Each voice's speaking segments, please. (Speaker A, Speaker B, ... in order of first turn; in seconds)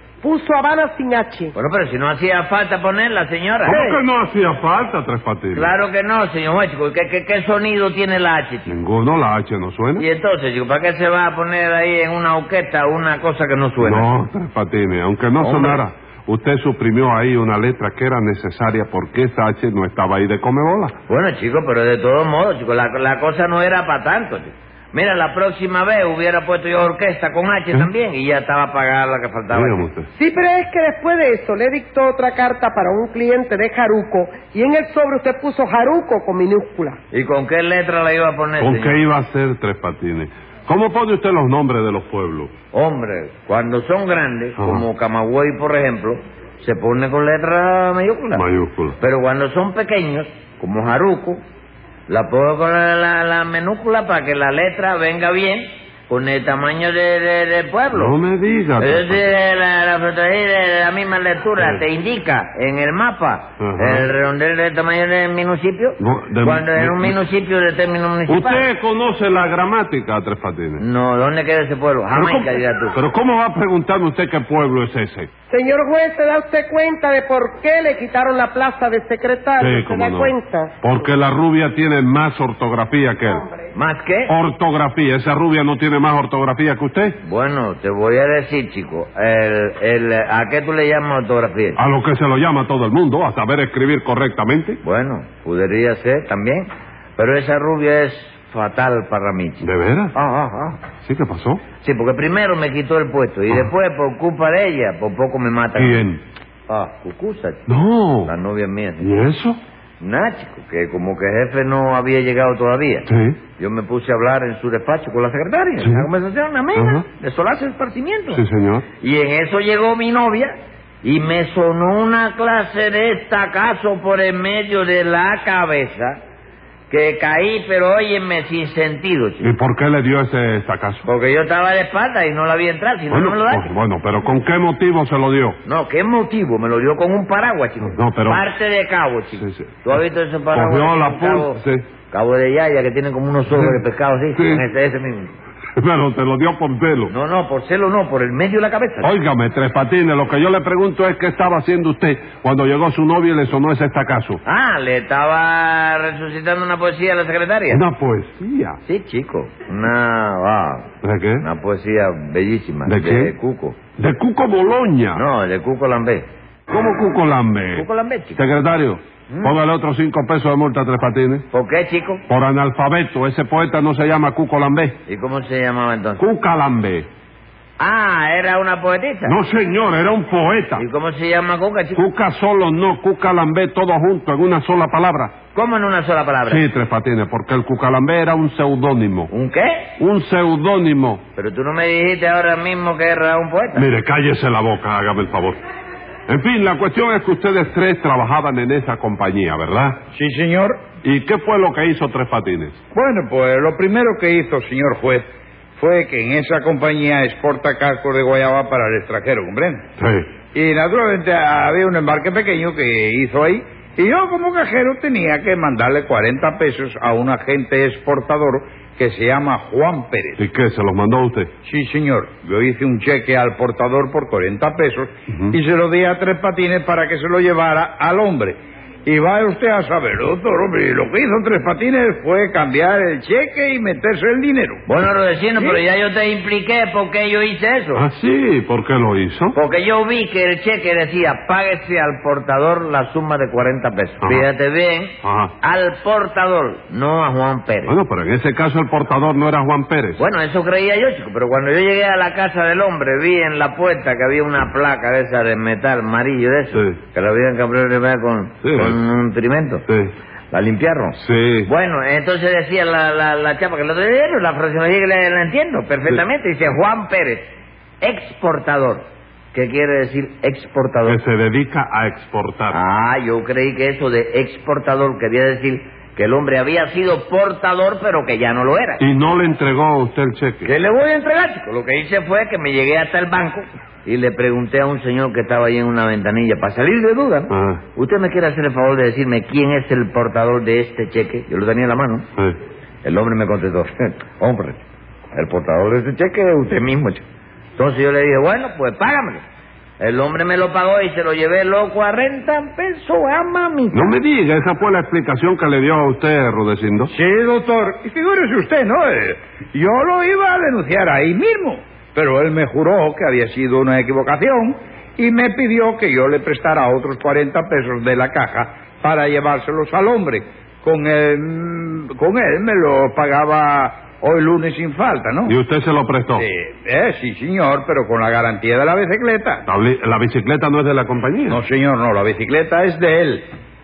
Speaker A: 0.2-1.5, 3.7-4.0, 30.2-37.0, 75.5-80.8
Speaker B: 1.5-3.8, 5.5-8.7, 10.0-14.1, 15.4-15.8, 21.1-29.8, 37.1-39.0, 42.7-48.4, 49.0-51.4, 52.1-58.1, 58.8-68.7, 70.8-73.0, 83.7-84.3, 87.2-91.8, 94.8-100.8, 101.8-106.0, 106.7-107.7, 108.2-109.1, 110.0-113.1, 113.6-118.4, 119.0-126.2, 126.9-129.5, 131.0-133.7, 135.6-141.6, 142.1-145.3, 147.1-149.1, 154.4-157.8, 158.8-160.9, 161.4-163.8, 165.1-166.3, 167.7-168.4, 171.5-172.2, 175.1-176.2, 177.8-179.3, 180.8-182.0, 185.5-186.6, 189.3-189.9, 191.3-193.9, 234.9-238.1, 239.5-247.9, 250.2-259.8, 260.5-271.2, 272.7-279.0, 280.6-292.3, 293.0-294.8, 295.3-297.2, 297.8-299.4, 300.0-304.1
Speaker C: 3.6-5.7, 8.7-10.1, 13.8-20.9, 29.5-30.1, 38.6-42.5, 44.6-44.8, 48.3-49.0, 57.9-59.2, 63.6-64.0, 66.0-67.2, 68.3-70.8, 72.1-75.3, 79.6-83.5, 84.3-87.2, 91.8-94.8, 99.6-100.1, 101.0-101.6, 105.8-106.2, 107.7-108.3, 109.0-109.6, 113.1-113.4, 115.8-116.1, 116.7-117.0, 118.3-118.8, 129.4-131.1, 133.1-135.6, 137.8-138.4, 139.4-139.9, 140.5-141.8, 144.3-144.6, 145.8-147.1, 149.0-154.4, 157.7-158.8, 161.0-161.4, 162.8-163.3, 164.0-165.2, 166.7-171.4, 172.3-175.0, 176.2-177.1, 179.2-180.8, 181.9-185.3, 186.4-189.3, 190.0-191.2, 193.7-195.6, 196.3-200.0, 201.0-202.8, 210.0-210.3, 220.4-221.5, 237.9-239.6, 245.2-245.5, 247.9-250.2, 256.7-257.0, 258.6-259.0, 259.9-260.1, 261.2-261.7, 271.1-272.8, 279.0-280.7, 287.5-287.8, 303.9-307.1, 325.4-326.4, 329.6-331.6
Speaker D: 200.1-200.8, 202.9-209.8, 210.5-220.4, 221.6-234.8, 307.1-325.5, 326.3-329.6, 331.5-333.5